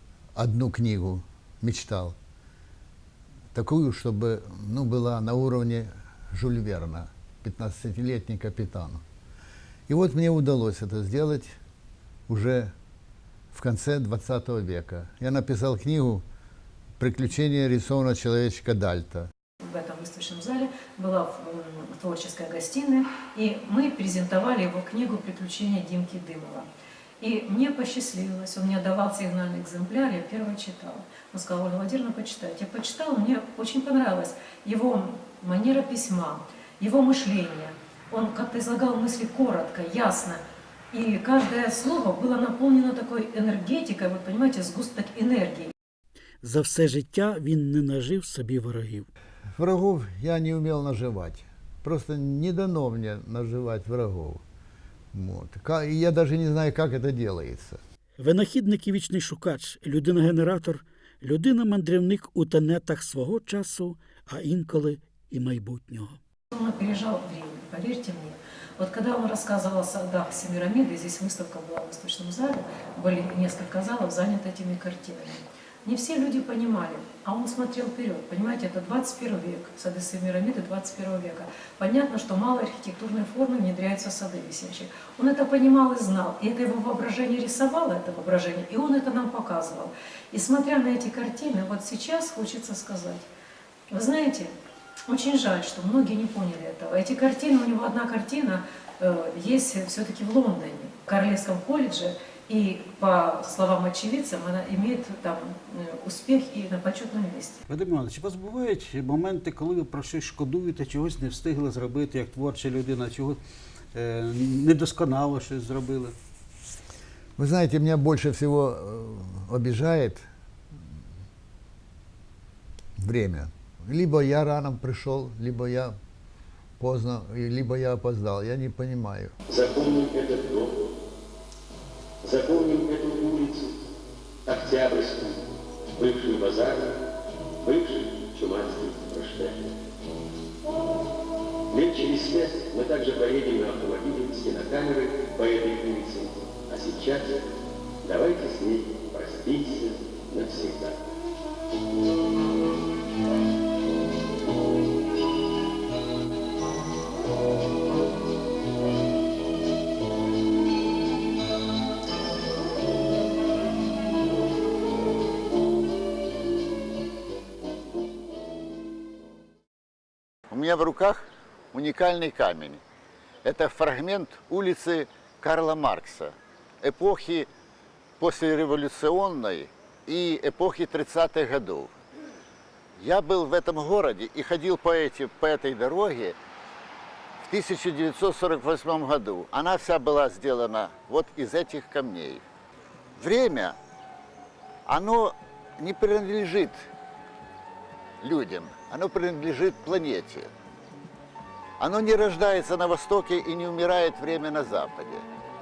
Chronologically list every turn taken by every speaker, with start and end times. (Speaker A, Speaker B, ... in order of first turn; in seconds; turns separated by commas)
Speaker A: 0.4-2.2, Speaker A: 3.5-9.0, Speaker A: 9.9-11.6, Speaker A: 12.3-12.7, Speaker A: 13.5-16.2, Speaker A: 17.0-19.3, Speaker B: 19.6-26.7, Speaker B: 27.2-45.7, Speaker C: 46.4-49.1, Speaker A: 49.6-54.4, Speaker A: 55.1-57.8, Speaker C: 58.2-66.2, Speaker B: 66.5-93.3, Speaker B: 93.9-94.5, Speaker B: 95.1-107.6, Speaker D: 107.7-113.4, Speaker D: 114.0-116.2, Speaker A: 117.4-120.3, Speaker A: 123.0-126.0, Speaker A: 126.8-129.3, Speaker E: 129.5-130.8, Speaker E: 132.2-133.8, Speaker E: 134.4-135.4, Speaker E: 135.9-136.9, Speaker E: 137.6-139.6, Speaker E: 141.7-147.4, Speaker E: 148.0-151.0, Speaker A: 170.5-172.8, Speaker A: 173.4-177.5, Speaker A: 178.2-181.9, Speaker A: 183.0-186.4, Speaker A: 187.4-192.4, Speaker A: 193.2-193.8, Speaker A: 194.9-196.9, Speaker A: 198.2-200.5, Speaker A: 201.8-205.2